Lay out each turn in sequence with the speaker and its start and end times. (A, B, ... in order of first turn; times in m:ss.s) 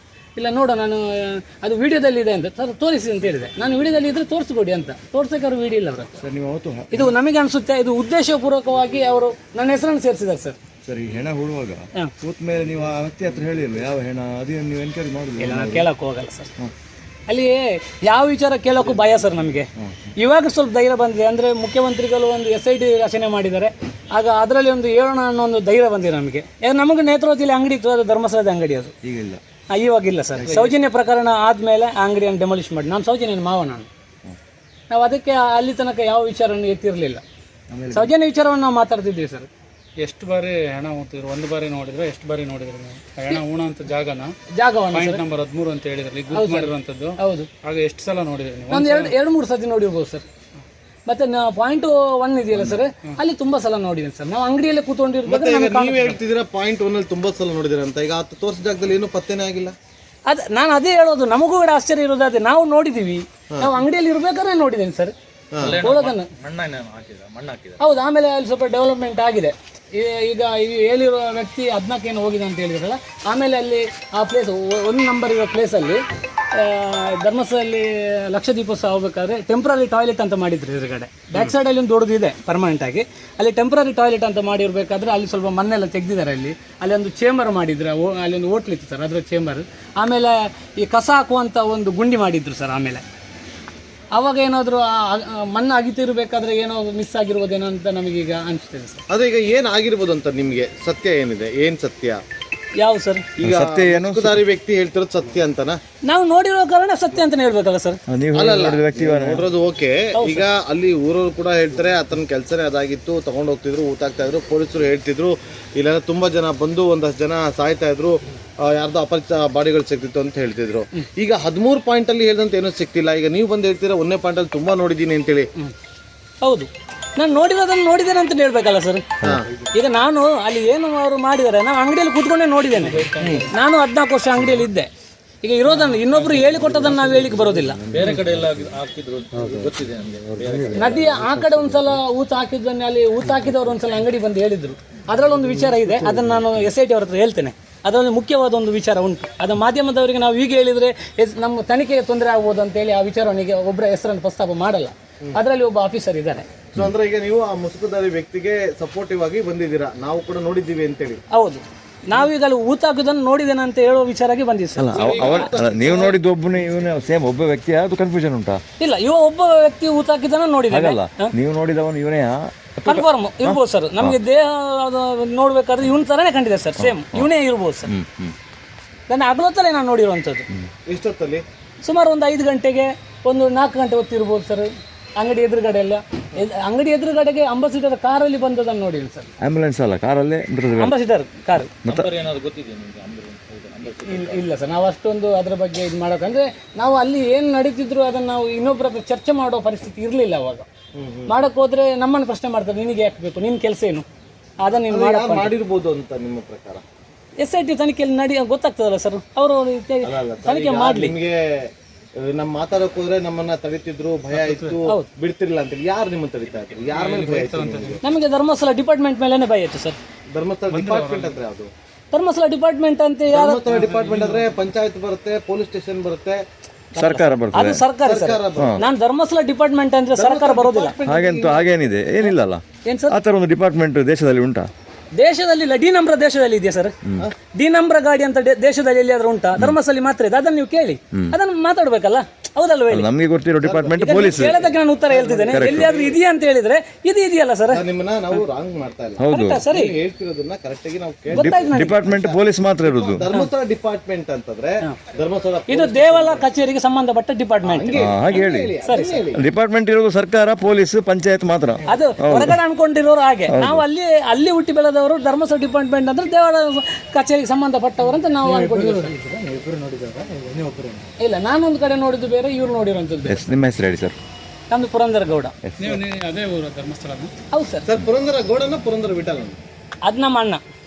0:00.4-0:06.2 A
0:06.2-0:07.1 B
0:06.9-0:10.6 A
0:10.8-0:15.9 B
0:15.4-0:16.5 A
0:17.3-0:28.9 A
0:19.8-0:20.1 B
0:29.0-0:29.4 B
0:29.7-0:33.9 A
0:30.5-0:30.8 C
0:34.9-0:37.2 A
0:37.7-0:38.1 B
0:37.9-0:39.5 A
0:40.0-0:44.3 C
0:44.5-0:45.2 A
0:44.9-0:49.1 C
0:46.3-0:47.5 A
0:48.7-0:50.2 A
0:51.1-0:56.2 A
0:55.2-0:59.7 D
1:00.2-1:05.1 A
1:05.5-1:05.9 D
1:05.6-1:07.9 E
1:05.7-1:06.3 A
1:07.8-1:33.0 A
1:34.1-1:39.0 A
1:39.1-1:42.2 D
1:42.8-1:43.2 A
1:43.4-1:45.8 D
1:43.4-1:44.4 B
1:46.0-1:48.0 A
1:48.1-1:49.4 B
1:48.3-2:05.5 D
1:50.1-1:50.4 A
2:06.4-2:09.1 A
2:09.2-2:09.5 D
2:09.6-2:14.9 A
2:12.8-2:13.5 C
2:12.9-2:13.3 E
2:15.4-2:17.8 A
2:15.7-2:16.5 C
2:17.0-2:17.3 B
2:17.8-2:21.3 E
2:20.7-2:36.4 A
2:36.7-2:41.2 D
2:41.3-2:45.4 A
2:44.8-2:48.6 B
2:45.0-2:45.5 C
2:45.0-2:46.2 D
2:48.8-2:51.3 A
2:50.7-2:54.2 B
2:52.8-2:57.9 A
2:56.8-2:57.3 B
2:57.8-2:58.3 B
2:59.1-3:00.5 A
3:00.8-3:01.4 D
3:01.8-3:09.3 A
3:09.4-3:10.9 B
3:10.7-3:11.8 A
3:11.8-3:12.1 B
3:11.9-3:14.5 E
3:14.0-3:20.6 A
3:20.9-3:21.3 D
3:21.3-3:24.0 A
3:24.6-3:25.5 A
3:24.9-3:26.8 D
3:27.4-3:31.1 A
3:30.0-3:38.0 D
3:34.4-3:34.7 C
3:34.8-3:35.1 A
3:36.9-3:38.0 C
3:38.0-3:40.0 A
3:40.3-3:41.7 D
3:40.7-3:41.4 C
3:42.1-3:43.9 A
3:43.3-3:46.4 D
3:43.7-3:44.5 C
3:46.9-3:50.9 A
3:47.0-3:47.8 B
3:48.0-3:48.8 D
3:48.6-3:48.8 B
3:50.1-3:51.7 D
3:51.0-3:54.7 B
3:52.8-3:53.2 A
3:55.1-3:56.9 A
3:57.5-4:03.1 A
4:02.9-4:04.6 B
4:03.6-4:06.2 D
4:04.0-4:07.8 A
4:05.5-4:05.9 B
4:07.7-4:16.4 D
4:09.2-4:09.7 B
4:09.3-4:09.9 A
4:11.3-4:12.0 A
4:11.3-4:13.2 B
4:15.7-4:18.0 A
4:17.6-4:19.4 D
4:17.9-4:18.7 B
4:18.8-4:19.2 A
4:19.3-4:22.6 B
4:21.8-4:29.2 A
4:23.5-4:23.8 B
4:28.4-4:31.1 E
4:31.2-4:33.5 A
4:33.2-4:34.2 B
4:34.7-4:35.6 A
4:35.6-4:36.0 B
4:35.8-4:37.3 C
4:37.5-4:37.9 A
4:37.9-4:39.6 D
4:40.0-4:40.6 A